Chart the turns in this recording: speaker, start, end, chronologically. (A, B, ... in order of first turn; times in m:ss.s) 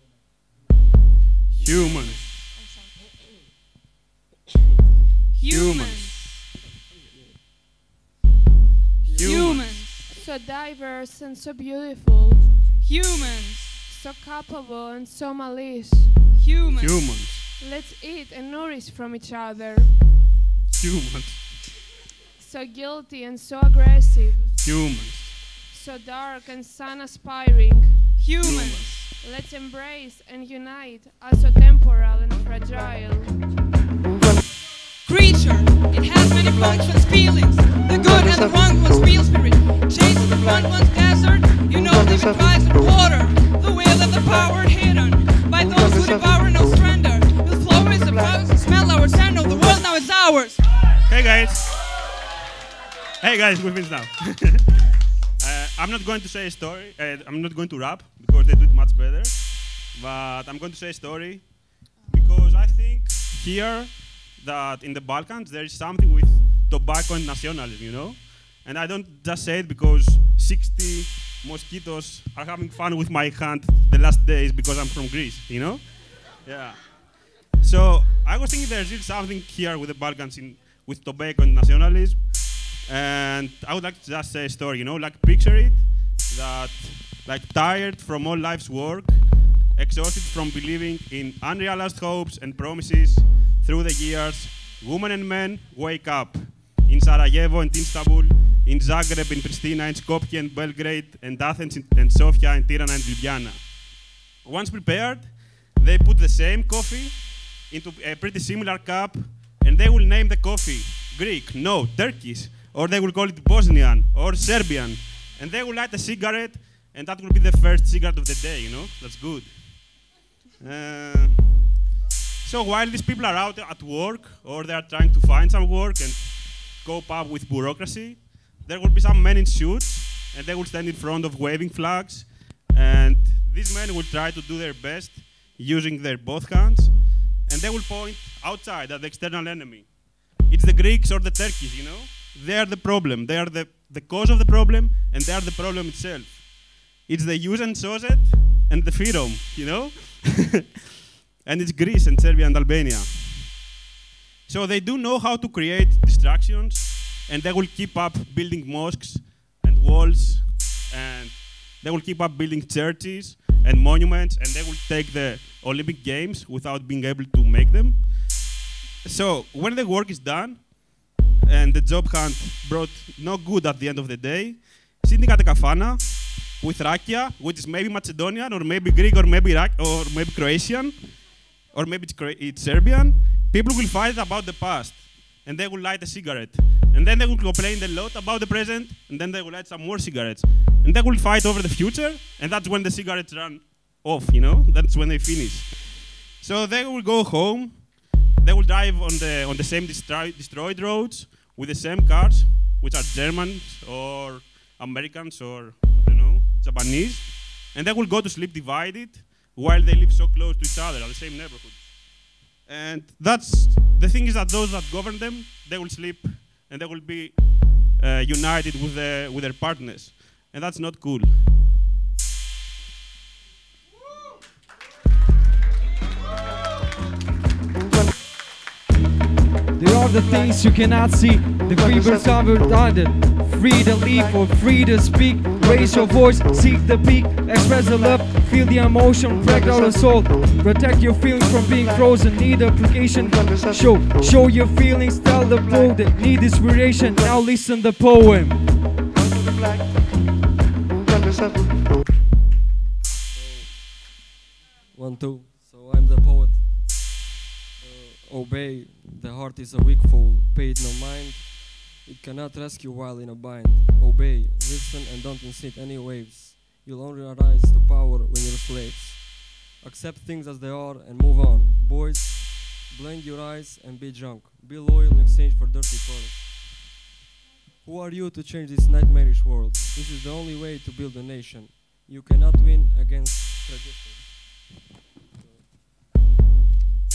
0:01.6-0:02.3 A
0:01.7-0:02.2 B
0:05.3-0:06.2 C
0:05.5-0:06.3 A
0:09.0-0:09.6 D
0:09.2-0:09.9 A
0:09.2-0:10.1 C
0:09.6-0:16.3 B
0:12.7-0:13.7 C
0:16.3-0:16.9 C
0:16.8-0:17.4 A
0:16.9-0:20.0 B
0:20.7-0:21.6 A
0:22.4-0:24.5 B
0:24.6-0:25.4 A
0:25.7-0:33.4 B
0:28.2-0:29.1 C
0:28.4-0:29.0 A
0:35.0-0:50.6 C
0:48.5-0:48.8 B
0:51.1-0:51.8 A
0:53.2-0:54.7 A
0:55.4-1:17.0 A
1:17.6-1:43.7 A
1:44.4-1:59.9 A
2:00.6-2:01.6 A
2:02.4-2:30.6 A
2:31.4-2:33.6 A
2:34.5-2:48.4 A
2:49.0-2:50.8 A
2:51.4-3:31.9 A
3:32.6-3:41.4 A
3:49.8-4:08.6 E
4:13.3-4:14.0 D
4:14.9-4:17.0 D
4:17.8-4:36.8 D
4:37.8-4:44.6 D
4:45.3-4:45.7 D